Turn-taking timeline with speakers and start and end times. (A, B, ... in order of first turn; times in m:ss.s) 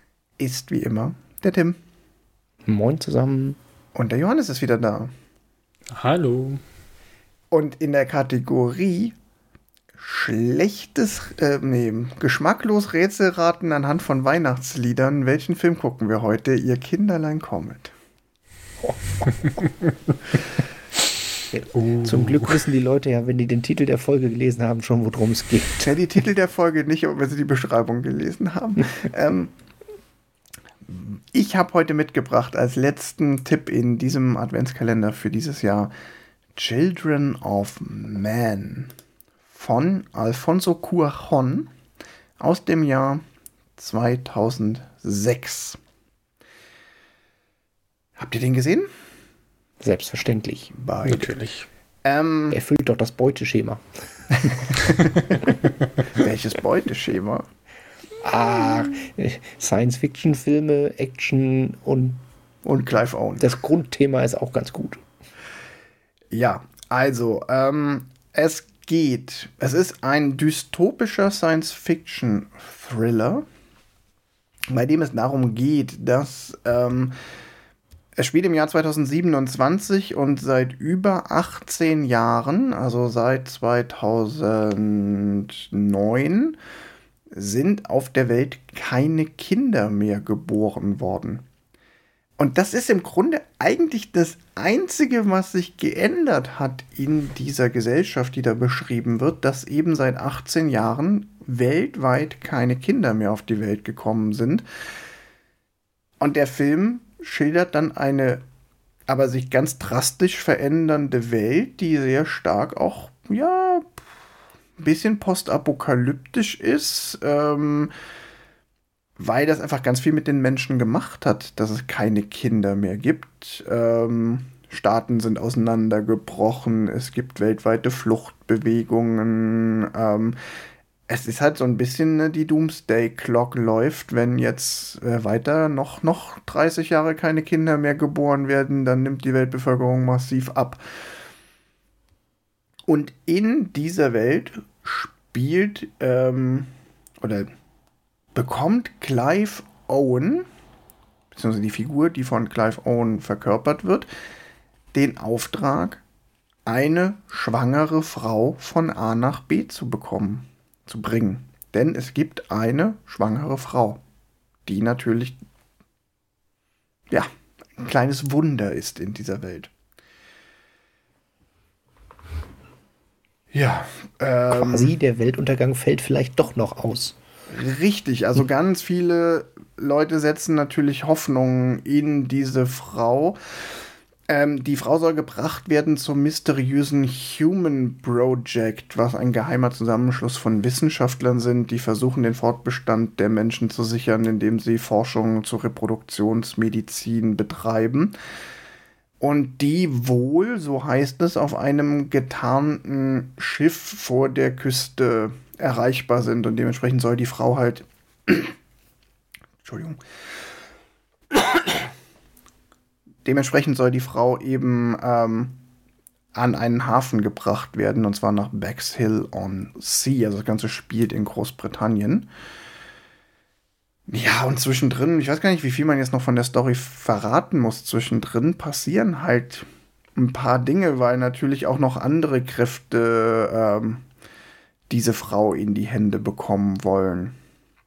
0:00.4-0:01.8 A
0:02.7-0:03.6 B
0:04.0-0:05.1 A
0:05.9-0:06.6 C
0:07.5-0:09.2 A
0:10.0-0:17.9 A
0:18.8-0:19.3 B
0:21.5-0:25.9 B
0:21.7-0:22.6 C
0:25.8-0:29.5 A
0:30.8-0:35.9 A
0:36.6-0:38.9 A
0:39.5-0:41.7 A
0:42.4-0:43.2 A
0:43.8-0:45.8 A
0:48.2-0:48.9 A
0:49.8-0:50.7 B
0:50.7-0:51.4 A
0:51.0-0:51.7 C
0:52.0-0:52.6 A
0:52.5-0:53.8 B
0:56.1-0:57.5 A
0:58.2-1:02.2 B
1:02.6-1:03.5 A
1:03.4-1:05.0 B
1:06.3-1:13.4 A
1:14.7-1:17.2 A
1:18.2-1:26.6 A
1:27.3-1:31.4 A
1:32.4-1:44.6 A
1:46.2-1:48.4 A
1:49.1-1:54.0 A
1:54.8-1:57.9 A
1:59.2-2:10.4 A
2:11.1-2:20.8 A
2:22.9-2:27.5 A
2:28.4-2:30.5 A
2:31.3-2:34.1 A
2:34.9-2:36.0 A
2:36.7-2:44.0 A
2:44.7-2:45.4 A
2:47.1-2:49.7 A
2:53.5-2:55.0 A
2:54.5-2:57.2 B
2:57.5-3:03.4 A
3:04.3-3:18.2 A
3:19.2-3:28.6 A
3:29.6-3:30.0 A
3:31.3-3:31.9 A
3:33.2-3:35.6 A
3:36.4-3:42.3 A
3:44.1-3:54.1 A
3:54.9-3:57.4 A